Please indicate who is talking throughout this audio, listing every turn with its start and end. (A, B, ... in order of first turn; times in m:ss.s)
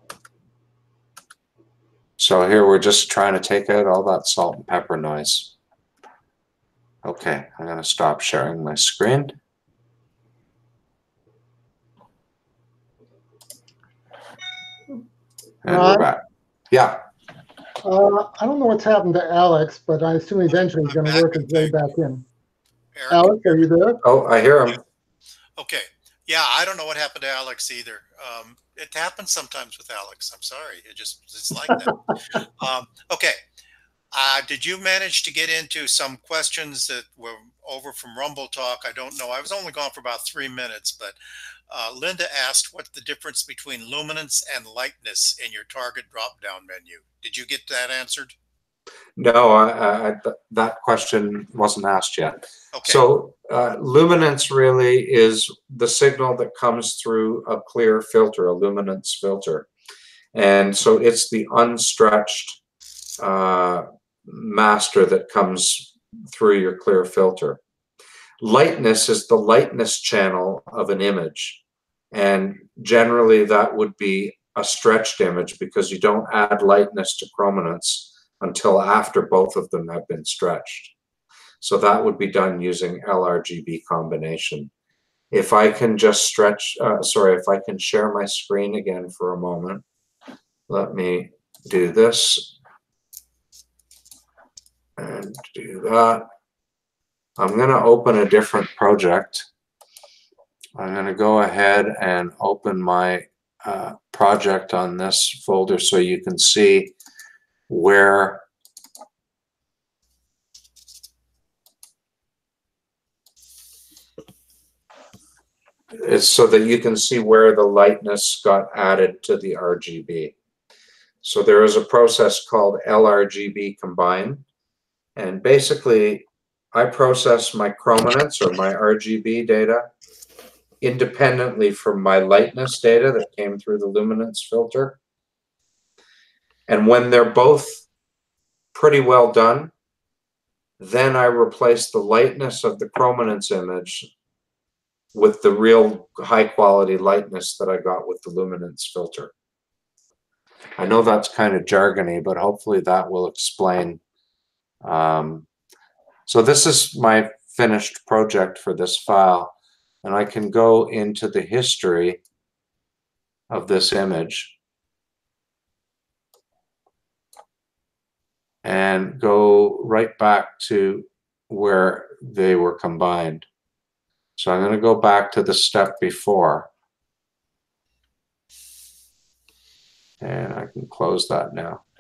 0:02.2-0:05.5 A
0:07.0-0:09.4 A
0:15.6-0:17.0 A
0:15.7-0:16.1 B
0:17.8-0:22.2 B
0:20.5-0:21.9 C
0:23.0-0:23.6 C
0:23.1-0:24.0 B
0:24.0-0:24.8 A
0:25.6-0:33.4 C
0:34.1-0:41.2 C
0:41.7-0:48.4 C
0:49.2-0:59.7 A
0:52.7-0:53.0 C
1:00.3-1:02.6 A
1:03.2-1:07.6 A
1:08.4-1:11.6 A
1:12.1-1:20.9 A
1:21.6-1:24.7 A
1:25.3-1:29.8 A
1:30.7-1:32.5 A
1:35.0-1:36.2 A
1:37.4-1:39.5 A
1:40.8-1:46.9 A
1:47.7-1:48.4 A
1:55.9-2:00.3 A
2:01.2-2:04.4 A
2:05.2-2:09.9 A
2:10.8-2:15.0 A
2:16.7-2:17.8 A
2:18.7-2:19.7 A
2:20.8-2:24.1 A
2:25.1-2:29.3 A
2:30.8-2:34.0 A
2:34.8-2:35.5 A
2:36.3-2:42.2 A
2:43.5-2:44.5 A
2:48.6-2:53.5 A
2:54.4-2:56.7 A
3:00.2-3:01.8 A